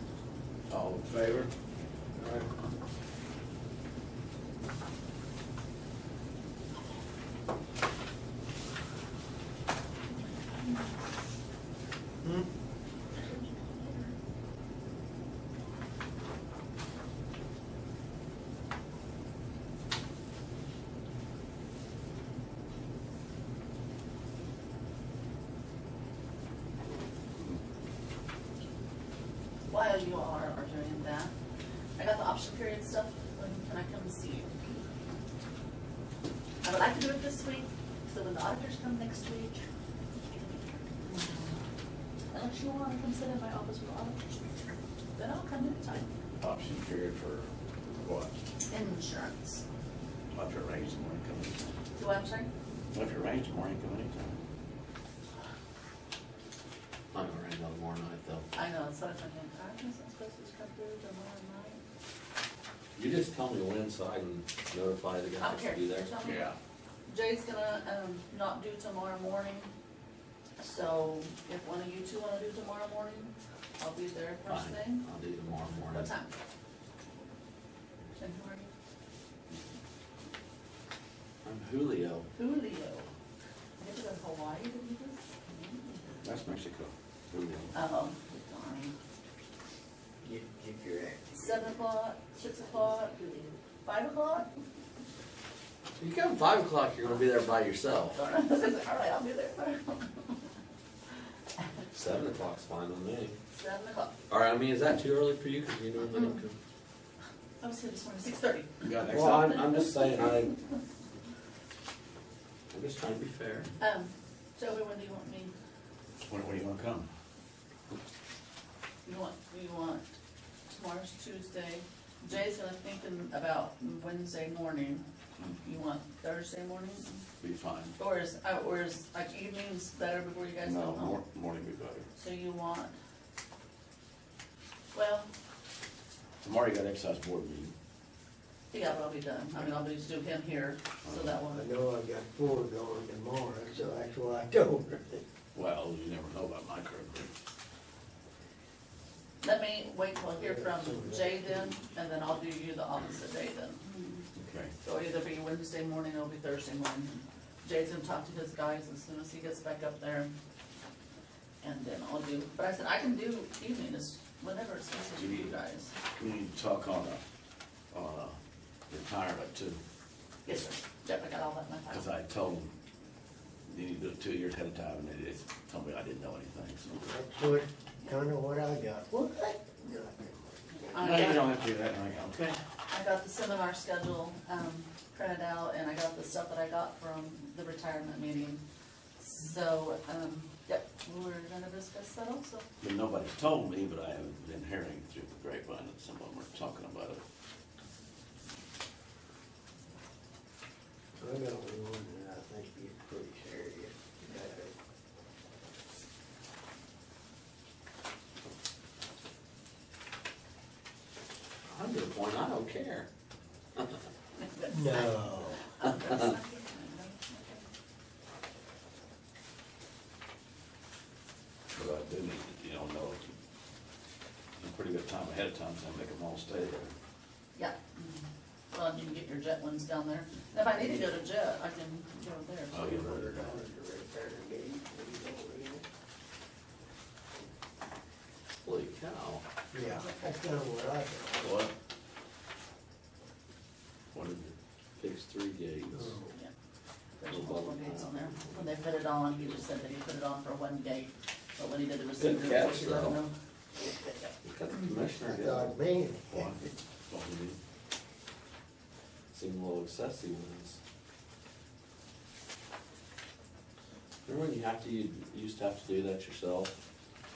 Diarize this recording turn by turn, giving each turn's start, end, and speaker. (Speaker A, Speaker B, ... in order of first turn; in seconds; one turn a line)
Speaker A: 0.7-1.5
Speaker B: 2.2-2.5
Speaker C: 10.2-10.9
Speaker C: 13.2-14.1
Speaker C: 29.7-31.3
Speaker C: 32.0-34.5
Speaker C: 36.6-39.6
Speaker C: 41.0-41.6
Speaker C: 42.3-44.6
Speaker C: 45.2-46.1
Speaker A: 46.4-48.4
Speaker C: 48.7-49.6
Speaker A: 50.3-51.6
Speaker C: 52.0-52.5
Speaker A: 52.9-54.4
Speaker D: 57.1-58.5
Speaker C: 58.5-61.8
Speaker D: 63.0-66.1
Speaker C: 65.4-66.5
Speaker A: 66.2-66.6
Speaker C: 67.1-69.7
Speaker C: 70.6-75.0
Speaker D: 74.5-76.1
Speaker C: 75.8-76.3
Speaker C: 78.2-78.7
Speaker D: 81.4-82.3
Speaker C: 82.3-83.1
Speaker C: 83.8-86.0
Speaker A: 86.2-87.7
Speaker C: 87.7-89.0
Speaker B: 90.2-91.4
Speaker C: 91.3-94.5
Speaker D: 96.0-98.2
Speaker C: 98.1-100.4
Speaker D: 101.9-103.4
Speaker C: 103.5-104.2
Speaker D: 104.3-106.6
Speaker C: 106.0-106.4
Speaker C: 107.6-109.7
Speaker A: 108.8-109.5
Speaker D: 109.1-110.6
Speaker D: 112.7-113.7
Speaker C: 113.8-115.5
Speaker A: 116.2-117.1
Speaker C: 119.0-120.2
Speaker C: 120.7-125.1
Speaker C: 125.6-127.2
Speaker A: 127.4-128.0
Speaker C: 128.0-131.2
Speaker A: 130.6-132.1
Speaker C: 132.2-132.9
Speaker C: 134.9-135.3
Speaker A: 136.4-137.7
Speaker C: 138.7-141.7
Speaker A: 141.0-141.4
Speaker B: 141.5-145.2
Speaker A: 145.5-147.3
Speaker C: 149.4-154.3
Speaker B: 150.4-151.7
Speaker A: 154.3-154.7
Speaker C: 154.8-160.3
Speaker C: 161.6-165.9
Speaker A: 165.1-165.6
Speaker A: 166.2-167.2
Speaker A: 167.9-168.4
Speaker A: 168.9-169.8
Speaker C: 170.5-172.1
Speaker A: 171.9-172.7
Speaker A: 173.7-177.0
Speaker B: 177.0-181.1
Speaker C: 180.8-181.5
Speaker A: 180.9-182.6
Speaker C: 182.9-188.6
Speaker C: 189.2-192.7
Speaker A: 192.8-197.2
Speaker B: 201.2-204.7
Speaker D: 211.7-213.1
Speaker C: 214.4-217.7
Speaker B: 214.7-215.7
Speaker D: 215.8-216.3
Speaker A: 221.7-223.3
Speaker A: 224.6-226.9
Speaker C: 227.6-233.0
Speaker A: 232.7-233.6
Speaker B: 232.8-235.8
Speaker D: 238.6-239.4
Speaker B: 239.7-241.7
Speaker A: 241.4-241.7
Speaker D: 244.3-246.2
Speaker B: 245.9-246.3
Speaker C: 247.2-253.3
Speaker D: 247.3-248.6
Speaker D: 252.2-253.2
Speaker D: 254.4-255.7
Speaker B: 255.2-256.7
Speaker A: 256.3-257.6
Speaker D: 259.3-260.8
Speaker D: 264.3-266.8